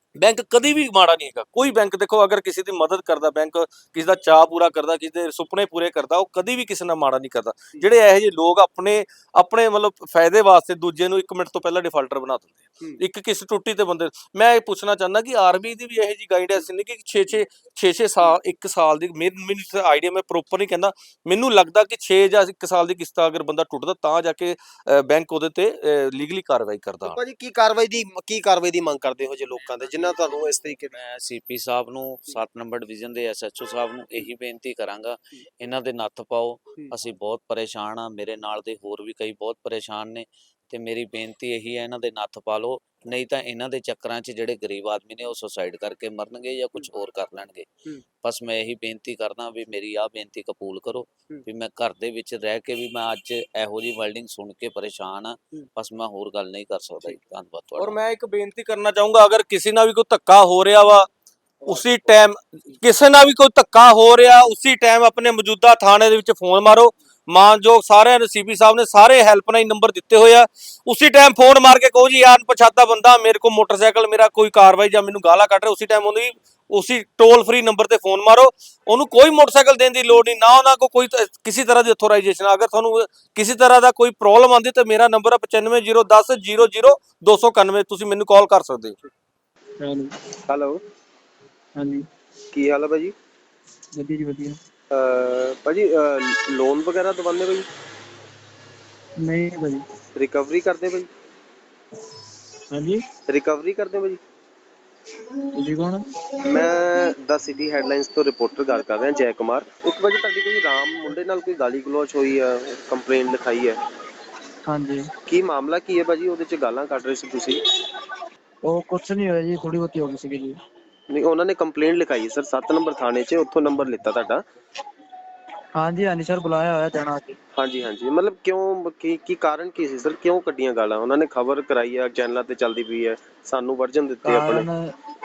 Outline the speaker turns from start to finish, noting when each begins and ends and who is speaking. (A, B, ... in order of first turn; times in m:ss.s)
0:00.2-0:27.2 A
0:27.0-0:31.0 B
0:29.6-0:47.7 C
0:48.2-0:58.0 C
0:57.8-1:01.1 A
1:01.6-1:02.1 B
1:01.7-1:29.0 A
1:29.8-1:30.1 D
1:30.5-1:30.8 B
1:31.8-1:32.0 D
1:32.5-1:33.1 B
1:34.0-1:34.6 D
1:34.9-1:37.7 B
1:39.2-1:39.8 D
1:40.2-1:41.1 B
1:42.7-1:43.0 D
1:43.3-1:44.2 B
1:45.6-1:46.0 D
1:46.4-1:53.8 B
1:54.7-1:55.0 D
1:55.3-1:57.6 B
1:58.7-2:00.6 D
2:01.1-2:04.4 B
2:05.8-2:07.4 D
2:07.6-2:14.7 B
2:14.2-2:14.8 D